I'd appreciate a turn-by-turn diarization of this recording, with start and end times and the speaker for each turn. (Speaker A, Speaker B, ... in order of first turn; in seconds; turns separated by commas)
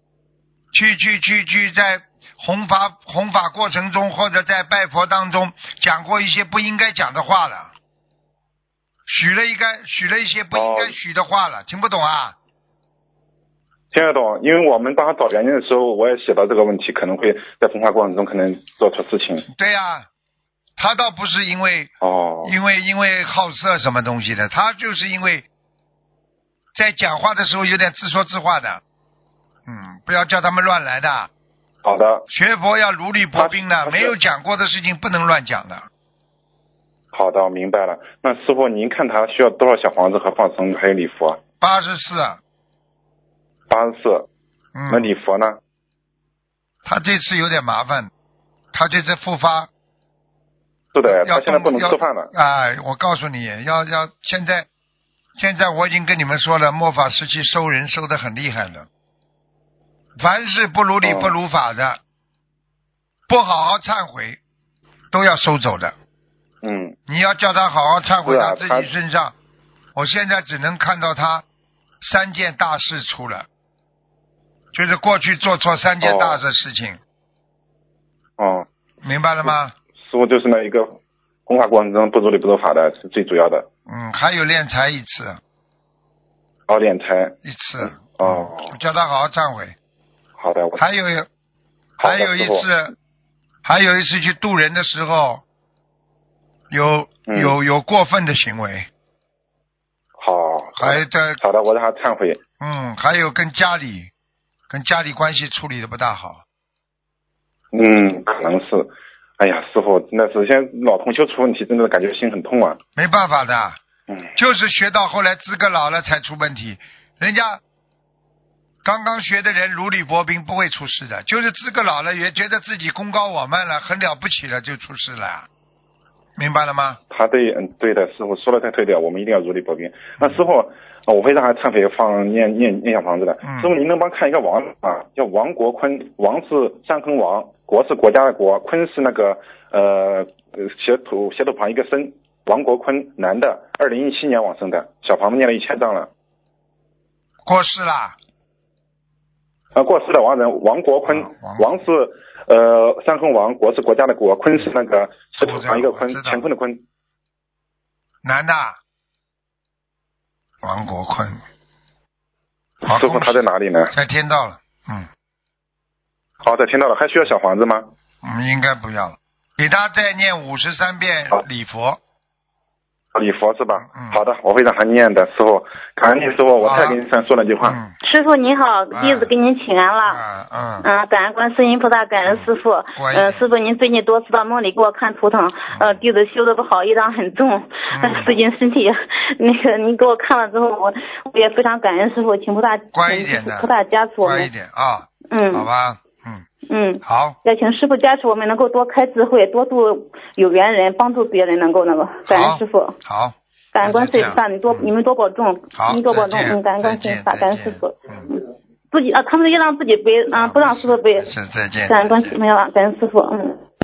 Speaker A: 0.7-7.7, Speaker A: 9.1-12.4, Speaker B: 10.5-10.9, Speaker B: 13.9-19.4, Speaker A: 19.5-20.1, Speaker A: 20.8-21.9, Speaker B: 22.0-22.5, Speaker A: 22.4-25.5, Speaker A: 26.8-28.8, Speaker A: 29.7-31.3, Speaker B: 31.8-32.2, Speaker A: 32.3-35.9, Speaker B: 33.4-34.1, Speaker B: 37.1-41.4, Speaker A: 41.6-42.4, Speaker B: 43.7-44.3, Speaker A: 44.8-45.1, Speaker B: 44.9-45.6, Speaker A: 46.9-48.1, Speaker A: 48.7-49.7, Speaker B: 50.9-52.3, Speaker A: 51.1-54.7, Speaker A: 55.4-58.9, Speaker A: 60.2-62.0, Speaker B: 61.0-61.3, Speaker A: 63.3-64.4, Speaker A: 65.1-66.0, Speaker B: 66.6-67.0, Speaker A: 67.1-69.3, Speaker B: 68.2-68.9, Speaker A: 70.0-71.4, Speaker A: 72.0-73.5, Speaker A: 74.7-77.0, Speaker B: 76.0-76.4, Speaker B: 78.4-78.7, Speaker A: 79.0-79.7, Speaker B: 80.0-83.7, Speaker A: 83.9-85.4, Speaker B: 86.7-88.7, Speaker A: 87.5-89.8, Speaker B: 90.4-90.8, Speaker A: 90.8-91.3, Speaker B: 92.0-92.7, Speaker A: 92.0-92.9, Speaker A: 93.7-95.4, Speaker A: 96.7-98.9, Speaker B: 97.2-97.6, Speaker B: 100.2-102.4, Speaker A: 100.8-101.4, Speaker A: 102.6-104.1, Speaker A: 104.7-106.4, Speaker B: 107.7-112.8, Speaker A: 113.0-113.8, Speaker A: 114.4-117.6, Speaker A: 118.8-125.5, Speaker A: 126.4-127.0, Speaker B: 127.1-146.1, Speaker A: 133.4-133.7, Speaker A: 147.4-148.2, Speaker B: 149.8-156.8, Speaker A: 151.1-151.8, Speaker A: 155.4-156.4, Speaker A: 158.2-158.8, Speaker A: 160.6-161.4, Speaker A: 162.8-165.1, Speaker B: 162.9-163.9, Speaker B: 166.4-167.9, Speaker A: 168.2-172.0, Speaker B: 173.1-177.8, Speaker A: 173.8-174.2, Speaker A: 176.6-177.0, Speaker A: 177.6-177.9, Speaker C: 178.0-180.2, Speaker A: 178.9-179.3, Speaker A: 180.0-180.9, Speaker C: 180.8-194.5, Speaker A: 182.3-183.4, Speaker A: 185.7-186.0, Speaker A: 187.9-188.3, Speaker A: 192.9-193.7, Speaker A: 194.2-196.5, Speaker C: 195.3-195.7, Speaker C: 196.7-203.0, Speaker A: 197.0-197.4, Speaker A: 202.3-204.9, Speaker C: 203.7-211.3, Speaker A: 205.7-208.3, Speaker A: 210.3-212.4, Speaker C: 211.9-213.6